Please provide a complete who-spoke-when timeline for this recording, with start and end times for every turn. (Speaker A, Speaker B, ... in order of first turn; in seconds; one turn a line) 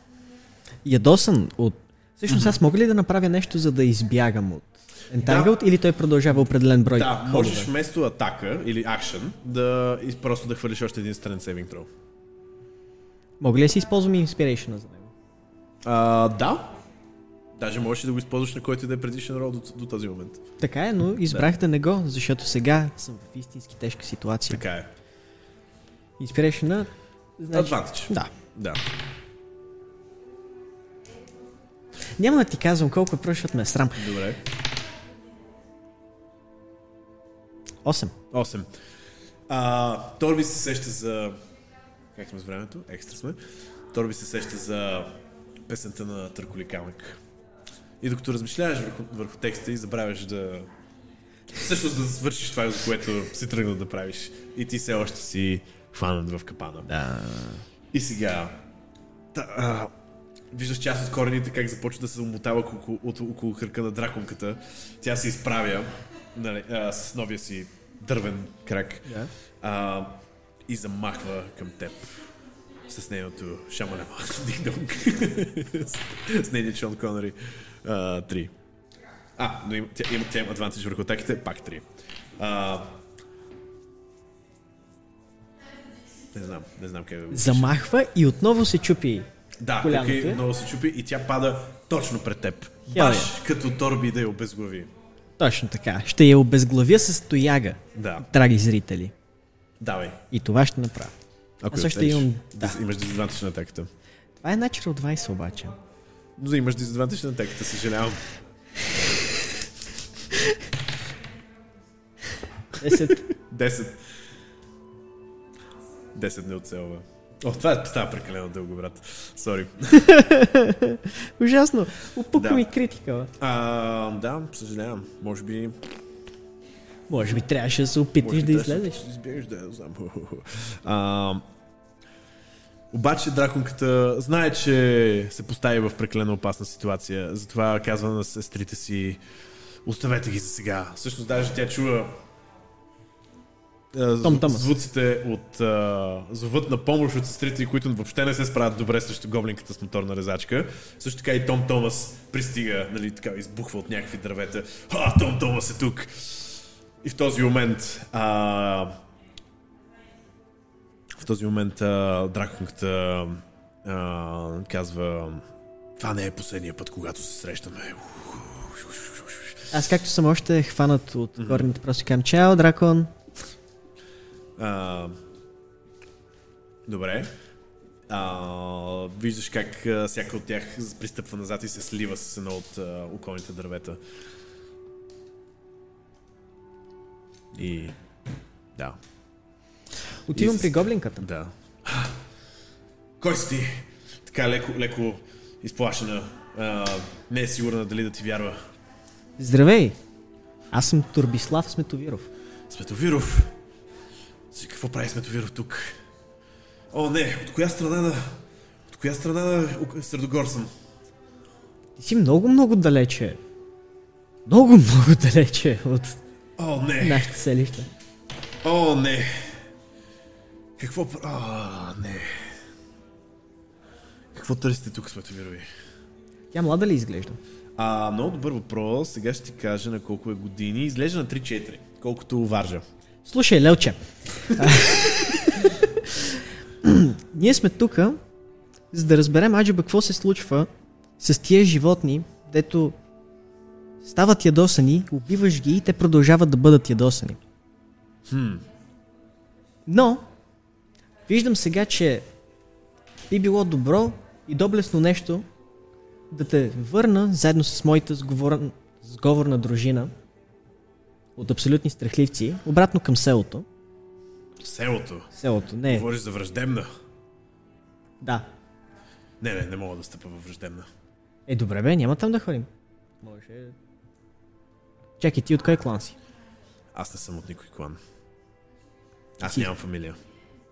Speaker A: 0.8-7.7
Speaker B: 2.3-2.6
Speaker B: 5.2-5.6
Speaker B: 6.9-11.9
Speaker A: 13.4-15.1
Speaker B: 15.8-16.7
Speaker B: 17.6-20.4
Speaker A: 20.6-24.6
Speaker B: 24.5-24.9
Speaker A: 26.2-28.3
Speaker B: 27.5-28.8
Speaker A: 32.2-34.1
Speaker B: 34.0-34.4
Speaker A: 37.8-38.1
Speaker B: 38.3-38.7
Speaker B: 39.5-41.4
Speaker B: 42.1-47.2
Speaker B: 48.0-50.7
Speaker B: 51.5-56.9
Speaker A: 56.9-57.6
Speaker B: 57.9-58.6
Speaker B: 59.3-59.9
Speaker B: 60.5-72.3
Speaker B: 72.9-78.5
Speaker B: 79.4-83.0
Speaker B: 86.3-87.8
Speaker A: 87.3-89.3
Speaker B: 89.6-94.9
Speaker A: 89.8-90.4
Speaker A: 92.9-93.3
Speaker A: 95.4-99.1
Speaker B: 97.9-98.3
Speaker B: 99.8-100.2
Speaker A: 100.3-101.1
Speaker B: 101.6-103.9
Speaker A: 101.7-102.8
Speaker A: 104.4-105.8
Speaker B: 106.4-108.2
Speaker A: 112.8-113.3
Speaker B: 112.9-114.0
Speaker B: 116.1-120.1
Speaker A: 119.9-123.3
Speaker B: 122.3-122.7
Speaker B: 123.4-125.9
Speaker A: 127.1-129.0
Speaker B: 128.2-131.4
Speaker B: 132.9-139.2
Speaker B: 139.8-142.2
Speaker B: 143.9-159.0
Speaker A: 144.2-144.7
Speaker B: 161.1-165.4
Speaker B: 166.0-169.7
Speaker A: 169.7-173.1
Speaker B: 171.4-171.7
Speaker B: 174.6-175.1
Speaker B: 176.8-177.3
Speaker B: 178.1-184.0
Speaker B: 187.5-187.9
Speaker A: 190.3-191.3
Speaker B: 190.3-192.2
Speaker B: 193.2-198.6
Speaker A: 199.4-199.9
Speaker A: 200.7-202.3
Speaker B: 202.7-203.5
Speaker B: 204.5-206.0
Speaker B: 206.9-210.7
Speaker A: 212.0-213.4
Speaker A: 214.4-216.2
Speaker B: 216.6-217.4
Speaker A: 217.0-217.9
Speaker B: 218.6-219.6
Speaker B: 220.8-222.6
Speaker B: 224.3-225.7
Speaker A: 226.5-227.4
Speaker B: 227.8-232.8
Speaker A: 233.2-238.2
Speaker A: 238.9-242.9
Speaker A: 244.0-247.4
Speaker B: 248.3-248.6
Speaker A: 249.9-250.3
Speaker A: 251.3-252.2
Speaker A: 253.3-255.4
Speaker A: 256.3-260.1
Speaker A: 261.4-263.6
Speaker B: 264.6-265.3
Speaker A: 265.3-266.1
Speaker B: 265.9-266.9
Speaker A: 268.2-268.5
Speaker B: 269.4-270.9
Speaker A: 271.5-272.7
Speaker A: 273.2-273.8
Speaker A: 275.2-276.1
Speaker B: 276.9-278.0
Speaker B: 279.4-280.2